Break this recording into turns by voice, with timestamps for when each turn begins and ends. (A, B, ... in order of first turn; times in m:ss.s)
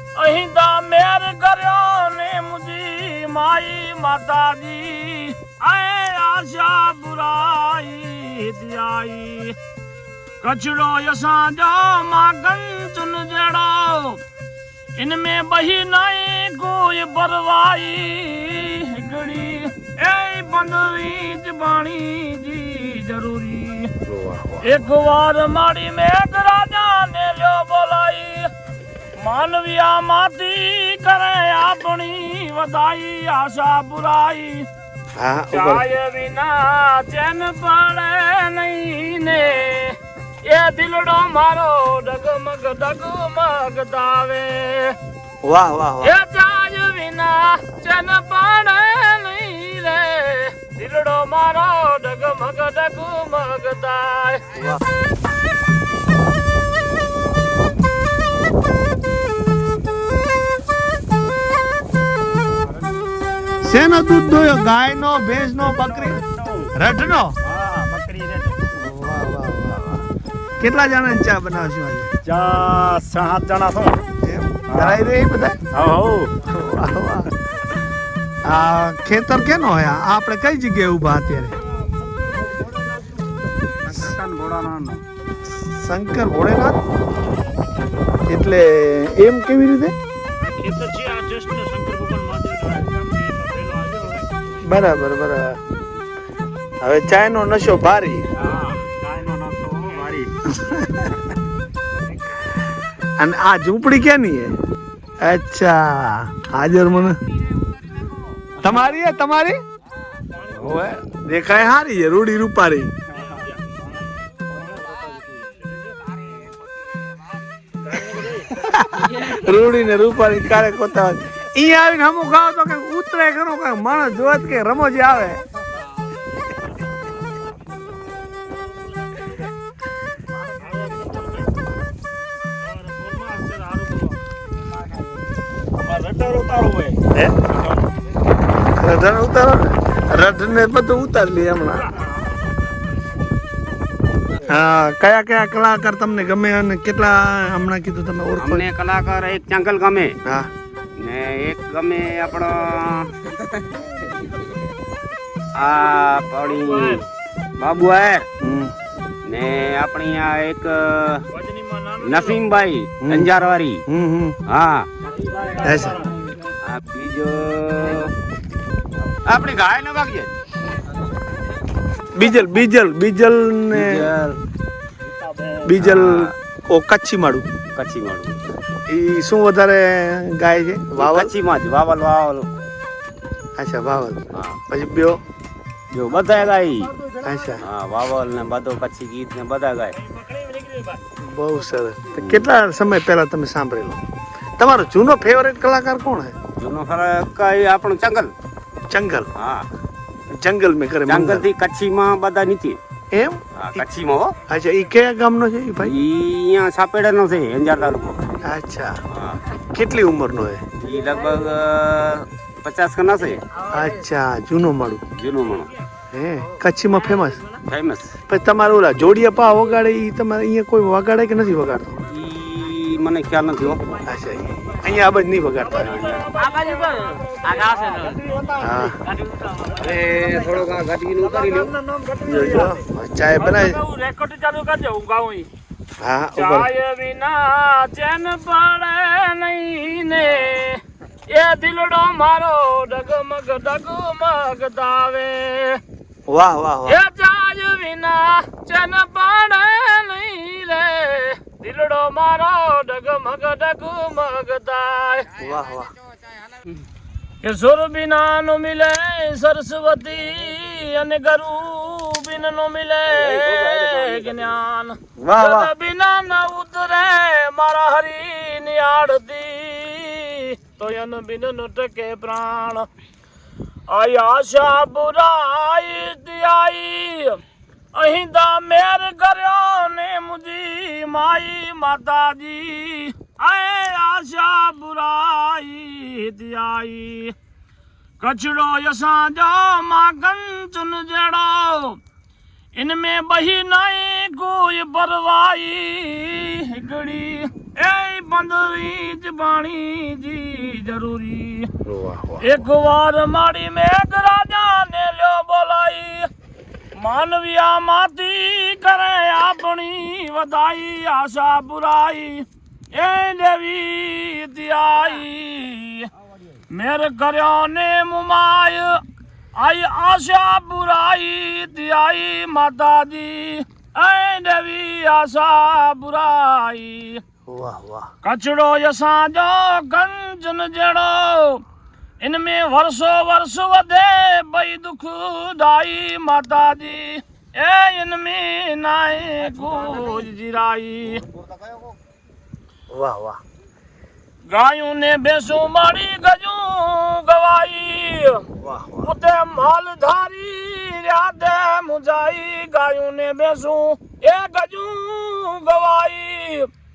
0:00.2-0:09.6 A
0:10.4-0:14.2 A
0:15.0-0:23.9 A
0:24.2-0:24.6 B
0:24.6-0:28.5 A
0:29.2-0:34.7 A
0:35.2-0:35.8 B
0:35.5-0:45.0 A
0:45.4-0:46.2 B
0:46.0-0:54.4 A
0:54.5-0:54.8 B
1:03.6-1:06.2 B
1:05.6-1:06.7 C
1:06.8-1:07.4 B
1:07.4-1:08.7 C
1:08.7-1:10.1 B
1:10.6-1:12.1 B
1:12.2-1:14.1 C
1:14.2-1:15.6 B
1:14.7-1:15.0 C
1:15.7-1:16.4 C
1:16.4-1:17.3 B
1:18.4-1:21.6 B
1:22.2-1:22.6 C
1:23.2-1:25.0 C
1:25.5-1:26.8 B
1:28.3-1:30.0 B
1:30.4-1:34.3 A
1:34.6-1:35.6 B
1:36.8-1:38.3 B
1:38.4-1:40.4 C
1:40.5-1:41.2 B
1:43.2-1:44.6 B
1:45.2-1:47.2 B
1:48.6-1:49.6 B
1:50.3-1:50.9 A
1:50.5-1:51.0 D
1:50.7-1:52.9 B
1:53.1-1:55.5 C
1:53.2-1:53.6 A
1:55.6-1:56.2 A
1:57.8-1:58.5 A
1:58.0-1:58.4 C
1:58.5-2:05.4 B
2:05.8-2:07.8 A
2:08.4-2:09.5 A
2:10.5-2:11.5 A
2:12.6-2:14.2 A
2:14.7-2:15.1 C
2:15.8-2:17.9 C
2:18.7-2:21.9 B
2:24.4-2:28.7 B
2:28.4-2:30.2 D
2:30.2-2:30.5 B
2:31.0-2:33.2 D
2:35.6-2:37.0 D
2:36.4-2:37.0 A
2:37.6-2:38.3 D
2:38.4-2:38.7 B
2:39.2-2:41.2 D
2:41.3-2:42.5 A
2:42.0-2:43.8 D
2:43.0-2:43.3 B
2:43.9-2:44.4 B
2:44.5-2:44.9 D
2:45.0-2:46.2 C
2:45.6-2:46.0 B
2:46.6-2:48.1 D
2:49.2-2:50.3 D
2:52.1-2:54.1 B
2:53.7-2:54.4 D
2:55.0-2:55.8 C
2:55.6-2:57.5 B
2:55.8-2:56.3 D
2:57.8-2:58.4 D
2:58.9-3:01.3 B
3:01.0-3:02.5 D
3:03.6-3:05.2 B
3:04.3-3:04.6 D
3:05.9-3:06.9 D
3:07.2-3:07.6 B
3:07.6-3:10.0 D
3:09.9-3:11.0 A
3:11.2-3:14.0 B
3:12.2-3:12.5 D
3:14.6-3:16.4 B
3:16.6-3:18.3 D
3:18.9-3:19.3 B
3:19.4-3:19.7 D
3:20.3-3:21.5 B
3:21.1-3:22.8 D
3:23.1-3:23.9 B
3:23.6-3:24.4 D
3:24.5-3:26.0 B
3:25.8-3:28.4 D
3:28.4-3:29.0 B
3:29.1-3:29.4 D
3:29.7-3:30.6 B
3:30.8-3:33.5 D
3:33.7-3:35.0 B
3:35.1-3:35.7 D
3:36.1-3:37.5 B
3:37.6-3:38.2 D
3:38.3-3:42.0 B
3:42.1-3:43.8 D
3:44.0-3:46.0 B
3:45.6-3:48.0 A
3:45.8-3:46.9 D
3:47.5-3:48.1 D
3:47.6-3:49.0 C
3:48.6-3:49.0 B
3:49.6-3:52.8 C
3:49.8-3:51.7 D
3:52.2-3:53.8 B
3:53.4-3:55.5 A
3:56.0-3:56.7 B
3:56.4-4:05.8 A
4:06.3-4:07.0 B
4:06.9-4:15.3 A
4:15.4-4:15.9 B
4:17.4-4:32.9 A
4:23.2-4:24.5 D
4:25.2-4:25.7 B
4:33.9-4:37.4 A
4:37.9-4:47.4 A
4:48.2-4:52.0 A
4:52.8-5:01.7 A
5:01.9-5:02.4 D
5:02.4-5:06.3 A
5:07.0-5:16.1 A
5:16.7-5:19.0 A
5:19.6-5:27.2 A
5:27.5-5:28.1 B
5:28.2-5:31.6 A
5:32.2-5:41.2 A
5:41.2-5:41.9 D
5:42.9-5:43.4 B
5:44.5-5:48.4 A
5:48.6-5:49.1 B
5:49.0-5:56.7 A